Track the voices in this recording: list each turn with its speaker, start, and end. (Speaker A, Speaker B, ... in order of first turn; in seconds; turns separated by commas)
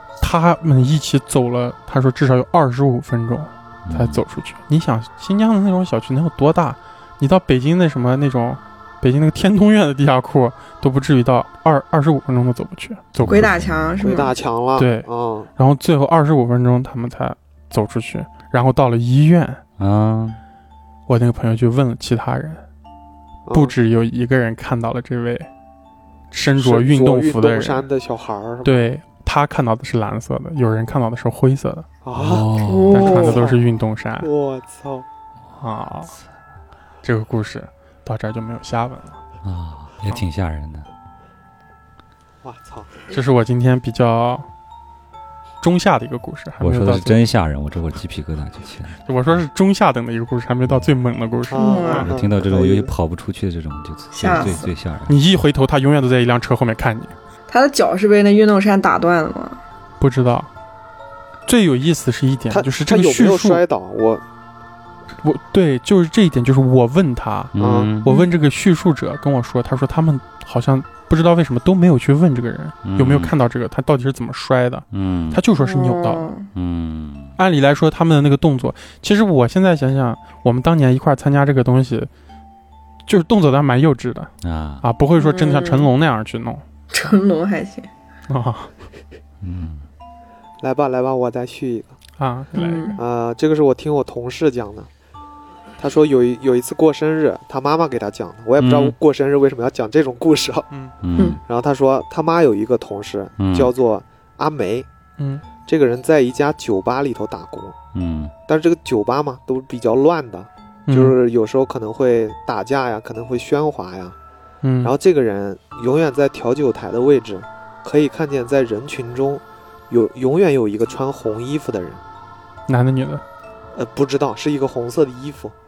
Speaker A: 0.2-13.4, Speaker B: 3.9-4.2, Speaker B: 13.2-14.1, Speaker C: 13.2-14.3, Speaker D: 14.0-15.5, Speaker A: 14.8-19.6, Speaker B: 19.8-20.4, Speaker A: 21.1-22.6, Speaker D: 23.4-23.8, Speaker A: 23.5-25.5, Speaker A: 26.3-27.9, Speaker D: 26.6-28.9, Speaker A: 28.6-31.9, Speaker D: 32.0-33.6, Speaker B: 32.1-33.0, Speaker C: 32.6-33.4, Speaker A: 32.9-34.3, Speaker D: 34.2-35.0, Speaker A: 35.6-36.1, Speaker A: 37.0-39.2, Speaker B: 39.4-40.9, Speaker D: 42.4-43.0, Speaker A: 43.1-44.5, Speaker A: 45.6-47.2, Speaker B: 46.6-49.0, Speaker A: 49.1-52.1, Speaker D: 51.5-52.9, Speaker C: 51.5-52.1, Speaker B: 52.0-55.1, Speaker C: 54.1-54.7, Speaker A: 55.1-57.1, Speaker C: 57.5-59.6, Speaker A: 60.0-60.5, Speaker A: 61.5-63.6, Speaker D: 62.5-64.2, Speaker A: 65.2-76.3, Speaker B: 67.6-68.0, Speaker D: 67.6-67.9, Speaker B: 72.8-73.3, Speaker B: 74.9-75.4, Speaker C: 75.6-76.5, Speaker B: 76.5-77.4, Speaker A: 77.4-82.1, Speaker A: 83.1-86.6, Speaker B: 84.4-84.8, Speaker C: 85.2-85.9, Speaker C: 86.9-87.9, Speaker A: 88.3-88.7, Speaker B: 89.4-89.8, Speaker D: 90.6-92.0, Speaker A: 92.2-93.0, Speaker C: 92.6-93.0, Speaker D: 93.0-94.9, Speaker D: 95.8-100.7, Speaker B: 98.6-99.0, Speaker B: 101.0-101.4, Speaker D: 101.5-104.9, Speaker B: 103.4-103.7, Speaker A: 105.2-105.4, Speaker D: 105.6-107.8, Speaker B: 107.9-108.3, Speaker D: 108.5-114.2, Speaker A: 110.9-111.2, Speaker A: 114.6-114.9, Speaker D: 114.8-122.0, Speaker A: 122.7-123.2, Speaker D: 123.7-125.5